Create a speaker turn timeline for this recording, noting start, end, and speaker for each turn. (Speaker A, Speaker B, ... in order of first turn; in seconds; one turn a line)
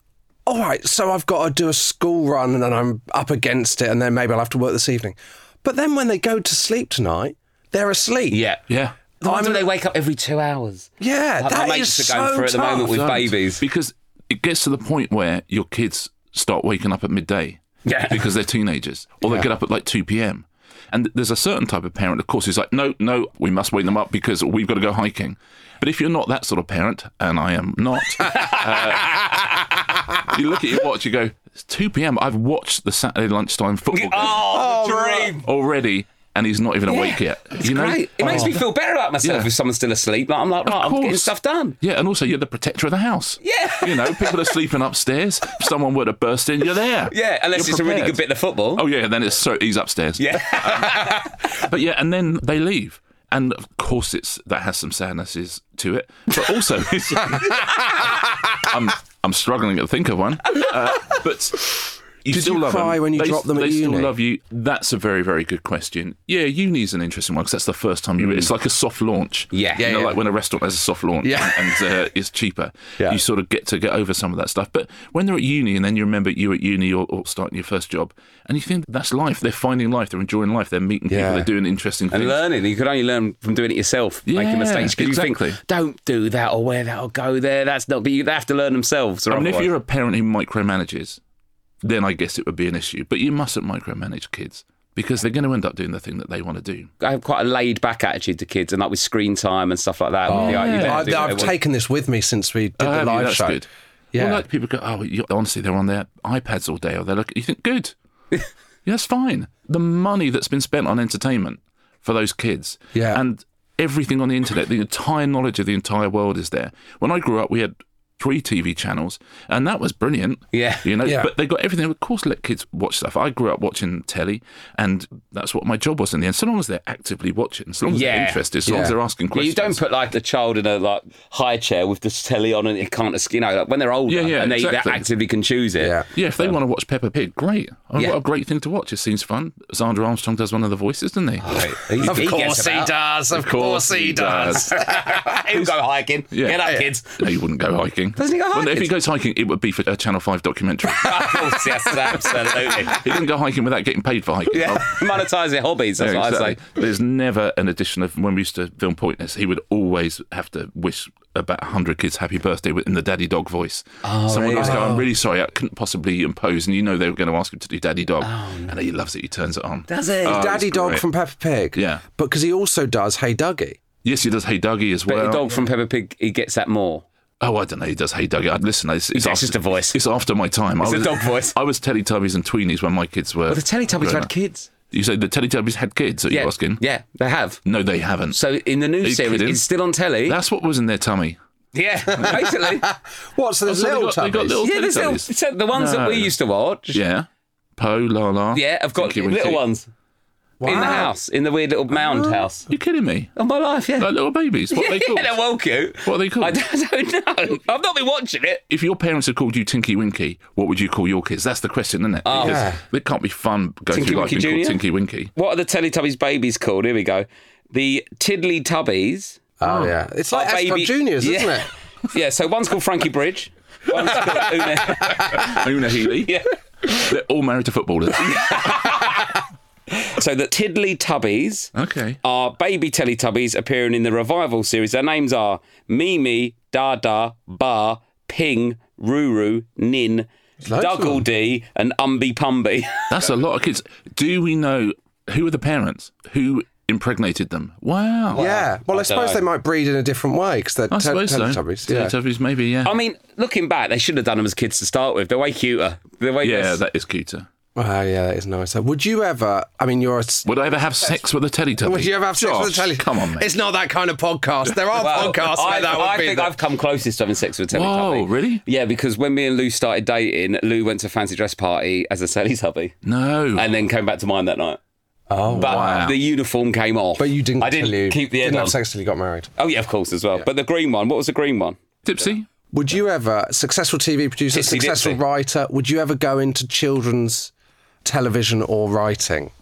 Speaker A: 0.5-8.4
Speaker B: 8.3-8.6
Speaker C: 8.7-9.0
Speaker B: 9.2-13.6
Speaker A: 9.2-9.7
Speaker A: 11.0-12.9
Speaker C: 12.7-29.5
Speaker B: 17.9-18.3
Speaker B: 28.3-28.8
Speaker C: 30.2-34.5
Speaker B: 33.9-35.5
Speaker A: 34.4-35.4
Speaker C: 35.4-38.6
Speaker B: 36.9-41.8
Speaker A: 38.2-38.6
Speaker C: 39.2-39.5
Speaker C: 40.7-82.4
Speaker B: 43.4-44.6
Speaker B: 47.1-48.9
Speaker B: 50.2-51.4
Speaker A: 62.3-64.1
Speaker B: 68.2-68.5
Speaker B: 69.5-69.9
Speaker A: 69.8-70.2
Speaker A: 71.2-71.8
Speaker A: 81.1-81.5
Speaker B: 82.1-89.7
Speaker C: 84.3-85.6
Speaker C: 89.3-91.2
Speaker C: 91.8-96.9
Speaker B: 97.0-101.5
Speaker A: 100.3-104.5
Speaker C: 100.3-101.6
Speaker C: 102.8-107.9
Speaker C: 108.9-129.8
Speaker A: 112.9-113.2
Speaker B: 120.5-120.9
Speaker A: 121.0-121.3
Speaker B: 127.9-128.4
Speaker A: 128.7-129.0
Speaker B: 129.3-136.5
Speaker C: 134.1-135.1
Speaker A: 135.8-136.1
Speaker C: 136.1-142.3
Speaker B: 141.4-142.9
Speaker A: 142.0-145.4
Speaker C: 143.3-144.7
Speaker B: 144.6-147.2
Speaker C: 146.3-151.6
Speaker B: 148.2-148.9
Speaker B: 151.0-153.1
Speaker C: 152.1-155.2
Speaker B: 154.5-156.6
Speaker C: 156.0-171.0
Speaker B: 164.0-164.9
Speaker A: 164.6-165.1
Speaker B: 168.2-168.7
Speaker B: 169.9-170.5
Speaker A: 170.2-173.8
Speaker C: 171.8-172.0
Speaker C: 174.0-175.6
Speaker B: 175.1-177.1
Speaker C: 177.4-184.3
Speaker B: 179.1-180.0
Speaker B: 180.8-181.6
Speaker B: 183.5-184.7
Speaker C: 184.9-186.8
Speaker B: 186.3-187.6
Speaker C: 187.7-188.4
Speaker B: 188.3-190.4
Speaker C: 189.0-189.6
Speaker C: 190.3-191.4
Speaker B: 191.7-192.9
Speaker C: 192.1-192.4
Speaker A: 192.3-194.6
Speaker C: 193.6-196.3
Speaker B: 194.6-197.0
Speaker C: 196.9-199.6
Speaker B: 198.5-199.9
Speaker A: 200.6-201.1
Speaker B: 200.6-202.7
Speaker A: 202.1-202.4
Speaker C: 202.7-203.3
Speaker B: 203.4-204.1
Speaker C: 204.0-205.3
Speaker B: 204.7-208.6
Speaker C: 206.0-206.6
Speaker C: 208.7-215.3
Speaker B: 212.2-212.7
Speaker A: 212.4-212.8
Speaker B: 213.9-214.8
Speaker B: 215.3-219.4
Speaker A: 219.6-221.7
Speaker C: 219.6-220.0
Speaker B: 220.3-225.6
Speaker C: 225.0-229.0
Speaker B: 226.2-226.5
Speaker B: 228.2-229.3
Speaker B: 229.9-231.7
Speaker C: 231.8-232.2
Speaker B: 232.2-243.3
Speaker A: 240.6-241.2
Speaker C: 243.1-248.5
Speaker B: 248.3-249.4
Speaker A: 248.3-252.1
Speaker C: 250.9-253.0
Speaker B: 252.8-256.8
Speaker C: 256.4-257.5
Speaker A: 257.8-260.5
Speaker C: 260.4-263.5
Speaker A: 261.8-266.6
Speaker B: 264.9-272.9
Speaker C: 267.7-268.6
Speaker C: 273.0-273.7
Speaker B: 273.6-274.8
Speaker A: 275.3-276.1
Speaker B: 275.5-278.8
Speaker C: 275.5-276.2
Speaker A: 277.2-279.5
Speaker B: 279.6-281.8
Speaker C: 282.1-282.5
Speaker A: 282.7-287.5
Speaker B: 284.5-285.2
Speaker A: 288.0-289.5